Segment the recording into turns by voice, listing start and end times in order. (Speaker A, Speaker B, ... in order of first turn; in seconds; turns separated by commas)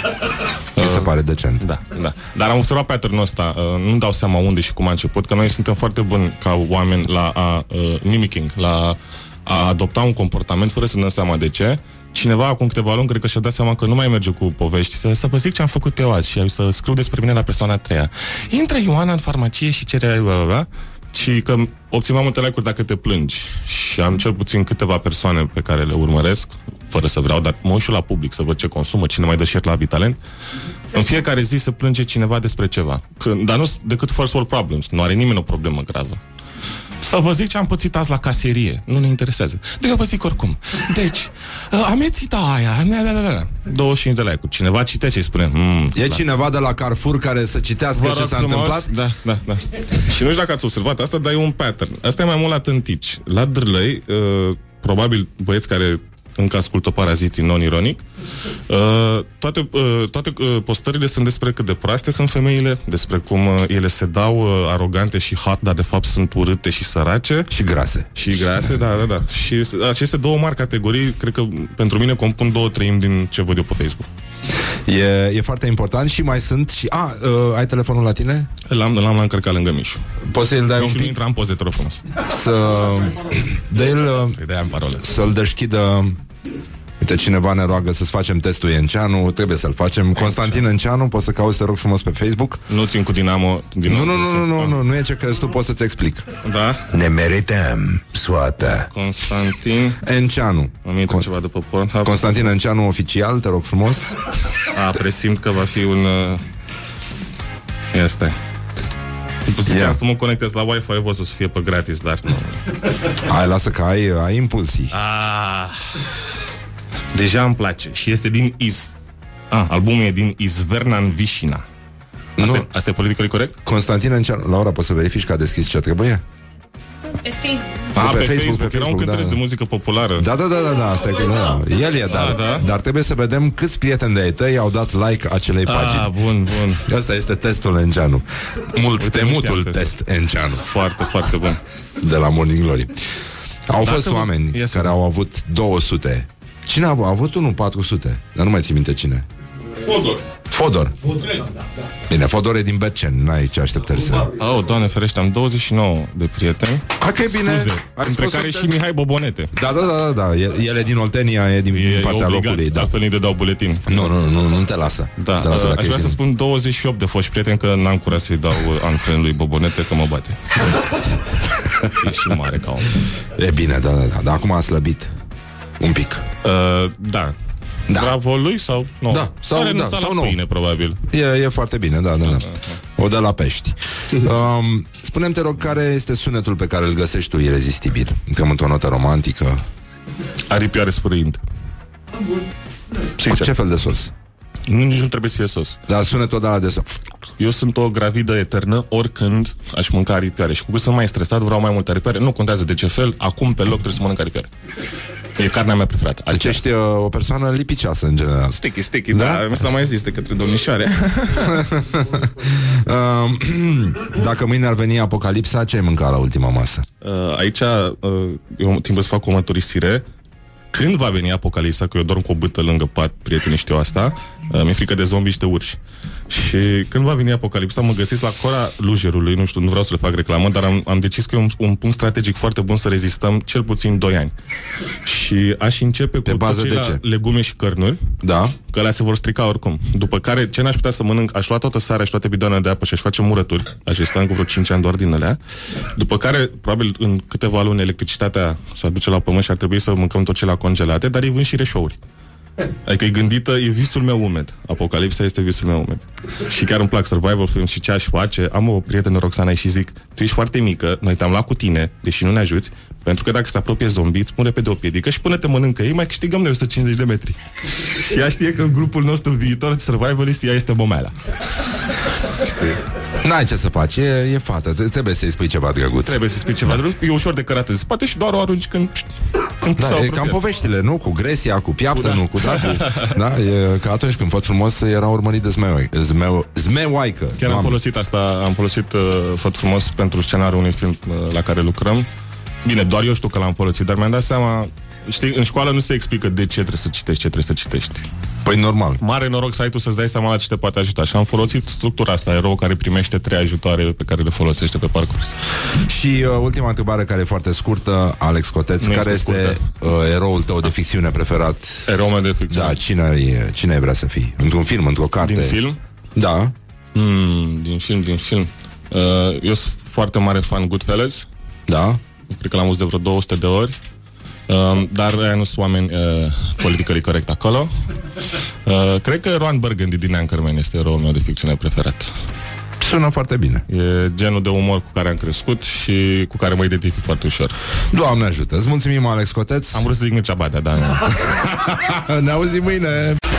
Speaker A: 0.8-1.6, Speaker B: 0.8-30.2, Speaker B: 30.9-36.2, Speaker B: 37.0-46.2, Speaker A: 45.9-48.9, Speaker B: 47.9-58.0, Speaker B: 58.7-67.5, Speaker A: 67.5-68.9, Speaker B: 68.1-74.1, Speaker A: 74.8-78.5, Speaker B: 78.7-80.0, Speaker A: 80.2-81.2, Speaker B: 80.8-82.0, Speaker A: 82.2-84.4, Speaker B: 84.3-85.2, Speaker A: 85.0-86.2, Speaker A: 87.0-92.6, Speaker B: 90.1-90.6, Speaker B: 92.7-94.8, Speaker A: 93.8-96.2, Speaker B: 96.4-96.8, Speaker C: 96.9-98.9, Speaker B: 98.8-100.0, Speaker A: 100.0-101.3, Speaker B: 100.8-102.5, Speaker A: 102.0-104.2, Speaker B: 104.7-106.4, Speaker B: 107.9-108.3, Speaker B: 109.5-112.6, Speaker A: 109.6-110.0, Speaker A: 113.2-114.9, Speaker B: 114.9-116.1, Speaker B: 117.1-119.0, Speaker B: 119.5-121.6, Speaker A: 122.4-122.7, Speaker B: 122.4-123.5, Speaker A: 123.6-126.2, Speaker B: 127.9-130.3, Speaker A: 127.9-129.4, Speaker A: 130.2-136.1, Speaker B: 132.1-132.6, Speaker B: 135.6-136.8, Speaker A: 136.8-140.7, Speaker B: 139.0-139.9, Speaker B: 140.6-141.6, Speaker A: 142.0-143.0, Speaker A: 143.7-149.2, Speaker B: 143.8-144.9, Speaker B: 149.9-150.2, Speaker A: 150.5-151.1, Speaker A: 152.1-154.3, Speaker B: 154.4-159.5, Speaker A: 157.0-158.8, Speaker A: 159.5-162.9, Speaker B: 161.7-164.1, Speaker A: 163.9-166.2, Speaker B: 165.2-170.4, Speaker A: 171.6-172.1, Speaker B: 171.8-173.0, Speaker A: 173.3-175.1, Speaker A: 175.8-176.2, Speaker B: 176.4-177.3, Speaker A: 177.9-178.1, Speaker B: 177.9-181.0, Speaker A: 179.1-180.4, Speaker A: 181.1-189.6, Speaker B: 182.2-182.7, Speaker B: 190.5-191.4, Speaker A: 193.2-194.1, Speaker B: 193.2-193.5, Speaker B: 194.7-195.8, Speaker A: 195.9-197.0, Speaker B: 197.4-204.5, Speaker B: 205.3-206.6, Speaker A: 206.3-208.6, Speaker B: 208.6-211.6, Speaker A: 209.1-209.7, Speaker A: 211.3-216.8, Speaker B: 217.0-220.0, Speaker B: 220.7-225.8, Speaker B: 226.3-234.3, Speaker B: 235.0-238.0, Speaker A: 236.2-237.0, Speaker A: 238.2-238.5, Speaker B: 238.6-245.4, Speaker B: 245.9-252.0, Speaker B: 252.8-272.8, Speaker A: 273.2-276.8, Speaker B: 276.0-280.4, Speaker A: 279.8-287.8, Speaker B: 281.9-283.2, Speaker B: 287.4-292.1, Speaker B: 292.6-298.0, Speaker A: 298.4-299.0, Speaker B: 299.0-305.3, Speaker A: 305.8-311.9, Speaker B: 308.8-309.6, Speaker B: 311.9-312.8, Speaker A: 312.5-315.6, Speaker B: 315.2-315.8, Speaker A: 316.1-316.5, Speaker B: 316.9-321.3, Speaker A: 321.7-322.0, Speaker B: 322.3-323.8, Speaker B: 324.5-327.7, Speaker B: 328.6-332.1, Speaker A: 332.8-333.6, Speaker B: 333.7-337.6, Speaker A: 337.9-339.9, Speaker B: 339.7-341.3, Speaker A: 341.2-343.2